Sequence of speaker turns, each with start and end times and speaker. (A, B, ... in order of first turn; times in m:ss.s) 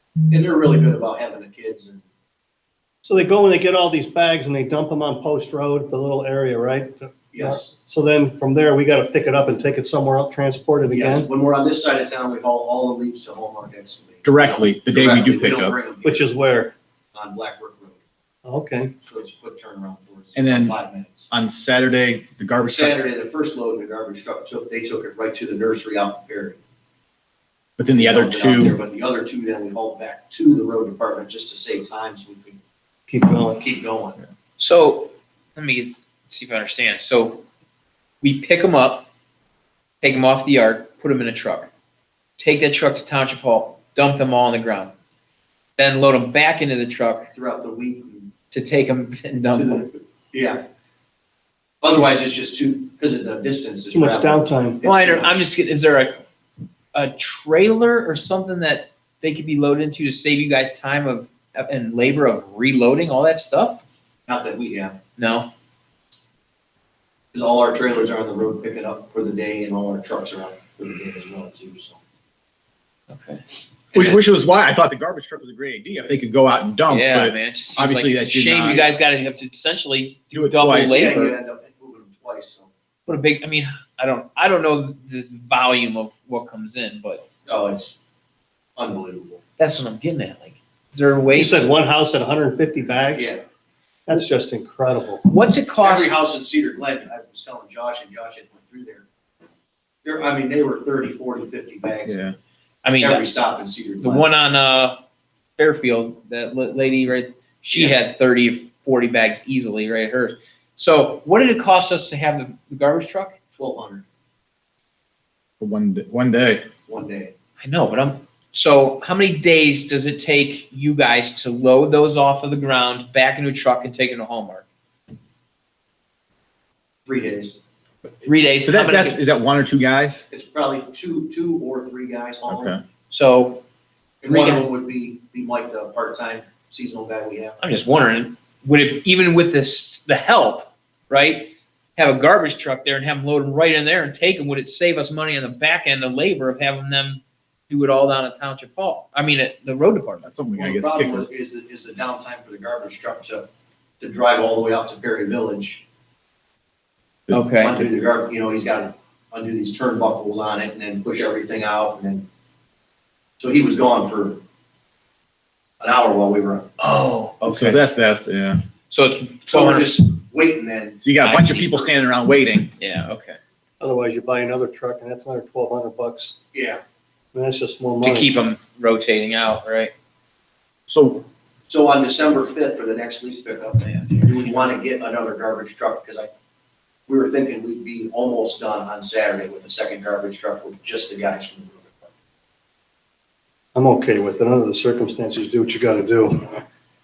0:00.3-0:02.0 A
0:03.0-0:11.3 B
0:07.3-0:07.7 A
0:10.9-0:16.3 A
0:14.2-0:15.8 C
0:16.0-0:16.7 B
0:17.1-0:18.0 A
0:18.4-0:18.9 B
0:19.0-0:21.3 A
0:20.4-0:20.8 C
0:21.3-0:23.0 C
0:22.6-0:26.6 A
0:27.8-0:28.8 C
0:27.9-0:32.6 A
0:33.1-0:33.6 B
0:33.5-0:34.2 A
0:34.6-0:37.4 D
0:38.2-0:39.1 D
0:40.0-0:41.7 D
0:42.4-0:44.9 D
0:45.8-0:47.3 D
0:47.3-0:48.3 A
0:48.5-0:49.8 D
0:49.5-0:50.6 A
0:51.8-0:55.4 A
0:53.9-0:54.8 B
0:54.8-0:56.2 D
0:56.9-1:03.8 D
1:04.3-1:05.0 A
1:05.2-1:05.5 D
1:07.3-1:12.0 A
1:13.1-1:13.4 D
1:13.9-1:14.2 D
1:13.9-1:18.8 C
1:16.9-1:21.2 D
1:20.3-1:21.3 C
1:20.8-1:22.7 A
1:23.1-1:27.2 D
1:27.5-1:28.0 A
1:28.8-1:29.4 A
1:29.6-1:31.7 D
1:31.3-1:33.3 B
1:33.2-1:33.4 A
1:34.1-1:35.2 B
1:35.2-1:36.1 D
1:35.8-1:39.1 A
1:40.0-1:42.2 A
1:42.0-1:42.4 C
1:42.8-1:43.2 D
1:43.0-1:44.3 A
1:44.0-1:45.0 D
1:45.6-1:53.4 D
1:47.7-1:48.0 A
1:53.6-1:54.0 A
1:55.6-1:56.6 C
1:56.9-1:57.3 A
1:57.6-2:04.6 D
2:07.0-2:07.6 A
2:08.2-2:09.2 D
2:08.6-2:10.2 C
2:10.3-2:12.8 A
2:12.5-2:12.8 C
2:13.1-2:13.6 D
2:14.2-2:17.6 A
2:14.3-2:14.6 D
2:17.6-2:30.3 D
2:30.2-2:31.3 C
2:30.6-2:33.5 A
2:34.0-2:35.8 A
2:37.3-2:37.7 D
2:37.6-2:42.3 A
2:43.4-2:44.4 A
2:45.8-2:46.7 A
2:46.8-2:47.8 D
2:47.4-2:48.6 C
2:48.9-2:50.0 D
2:49.5-2:51.0 A
2:51.0-2:52.7 C
2:51.2-2:51.9 D
2:52.8-2:53.4 D
2:53.8-2:56.4 B
2:56.5-2:56.8 A
2:57.3-2:58.3 B
2:58.0-2:59.9 D
3:00.9-3:01.3 C
3:01.6-3:06.3 A
3:03.8-3:04.6 D
3:07.1-3:12.1 A
3:13.7-3:16.6 B